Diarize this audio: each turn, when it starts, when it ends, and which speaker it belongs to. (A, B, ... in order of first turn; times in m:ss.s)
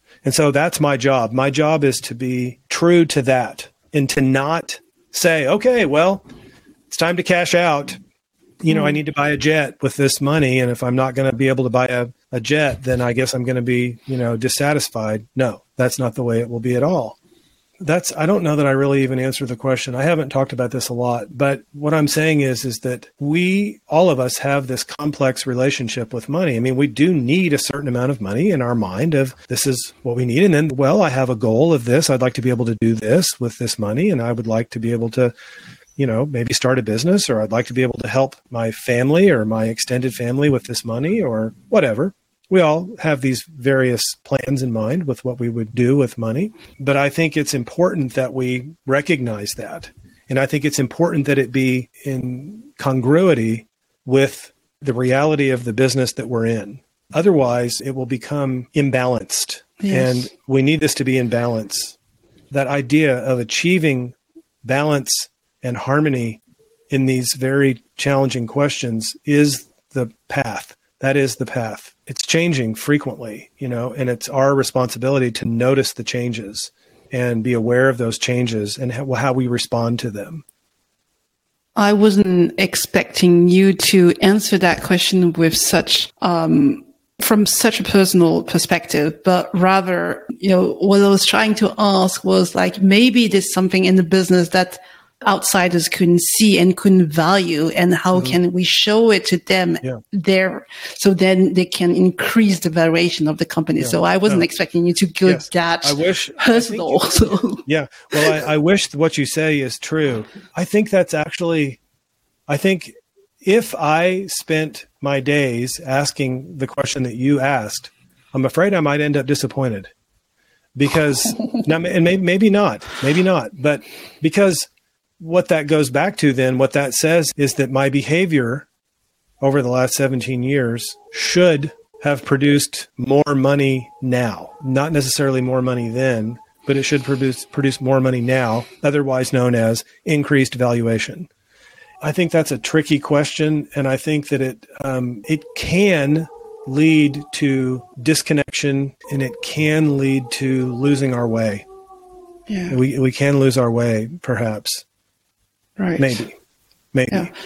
0:00.2-0:06.2 A
0:06.9-0:08.0 A
0:08.6-0:17.2 A
0:17.8-0:35.3 A
0:36.0-1:02.0 A
0:59.8-1:00.2 B
1:02.5-1:06.4 A
1:06.9-1:20.4 A
1:21.8-1:47.6 B
1:43.8-1:44.4 A
1:45.2-1:51.8 A
1:52.5-1:59.9 A
2:00.8-2:04.7 A
2:05.2-2:08.7 A
2:09.4-2:21.3 A
2:22.0-2:31.6 A
2:32.5-2:32.8 B
2:32.7-2:34.8 A
2:35.8-2:36.2 B
2:36.0-2:36.4 A
2:36.9-2:37.3 A